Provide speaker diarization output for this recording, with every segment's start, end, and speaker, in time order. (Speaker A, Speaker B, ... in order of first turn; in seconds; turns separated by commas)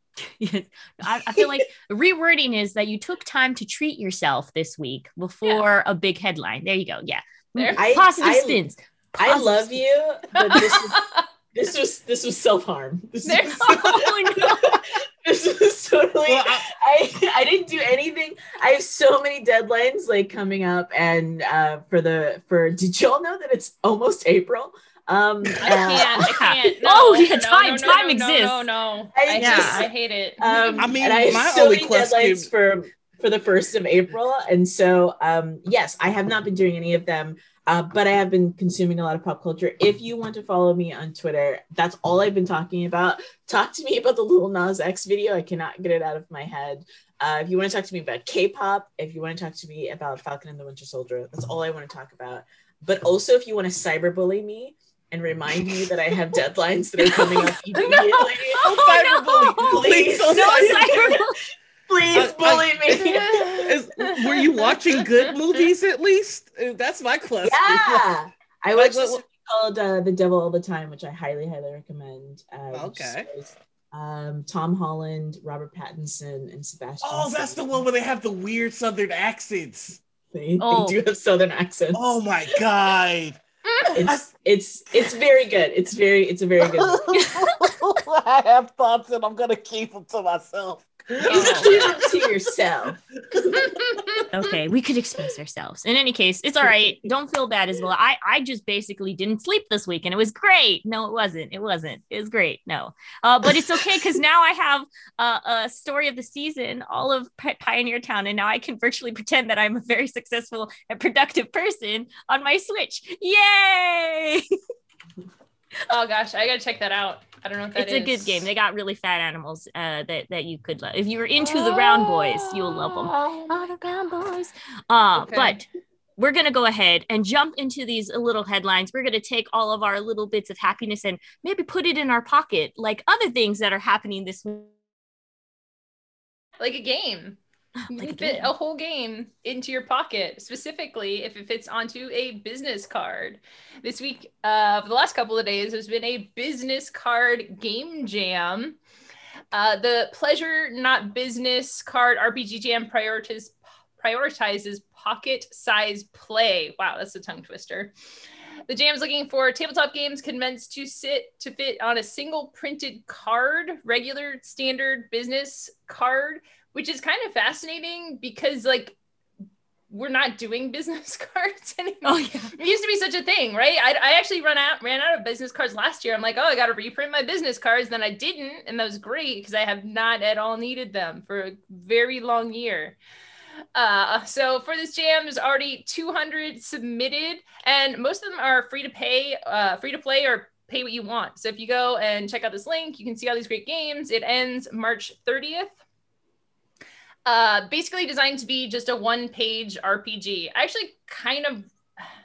Speaker A: 0.2-9.8, Speaker B: 7.6-7.8, Speaker C: 7.8-8.6, Speaker C: 9.2-26.4, Speaker B: 10.4-11.2, Speaker B: 13.2-13.8, Speaker A: 13.6-14.8, Speaker D: 16.3-16.7, Speaker B: 25.6-30.9, Speaker A: 26.2-28.7, Speaker C: 29.1-58.7, Speaker D: 29.4-29.9, Speaker D: 30.8-32.5, Speaker B: 57.8-58.2, Speaker D: 58.5-61.2, Speaker A: 58.5-59.7, Speaker C: 59.5-61.2, Speaker A: 60.3-61.4, Speaker C: 61.9-63.8, Speaker D: 62.1-68.1, Speaker B: 63.0-65.7, Speaker C: 67.5-77.6, Speaker D: 68.8-69.2, Speaker D: 72.7-73.3, Speaker D: 77.0-80.0, Speaker C: 80.3-82.2, Speaker A: 80.6-81.0, Speaker D: 81.9-84.3, Speaker C: 83.9-87.0, Speaker D: 86.7-92.4, Speaker C: 91.2-93.7, Speaker B: 91.3-91.9, Speaker D: 93.3-94.2, Speaker B: 93.7-94.2, Speaker A: 94.3-114.5, Speaker B: 115.9-118.5, Speaker A: 117.8-125.7, Speaker B: 121.4-123.5, Speaker B: 125.2-125.6, Speaker A: 126.2-134.7, Speaker B: 136.6-137.4, Speaker A: 137.8-138.5, Speaker B: 137.9-148.8, Speaker B: 149.5-157.9, Speaker B: 158.7-169.0, Speaker B: 169.9-183.0, Speaker A: 172.0-172.5, Speaker B: 183.8-195.8, Speaker B: 197.3-202.0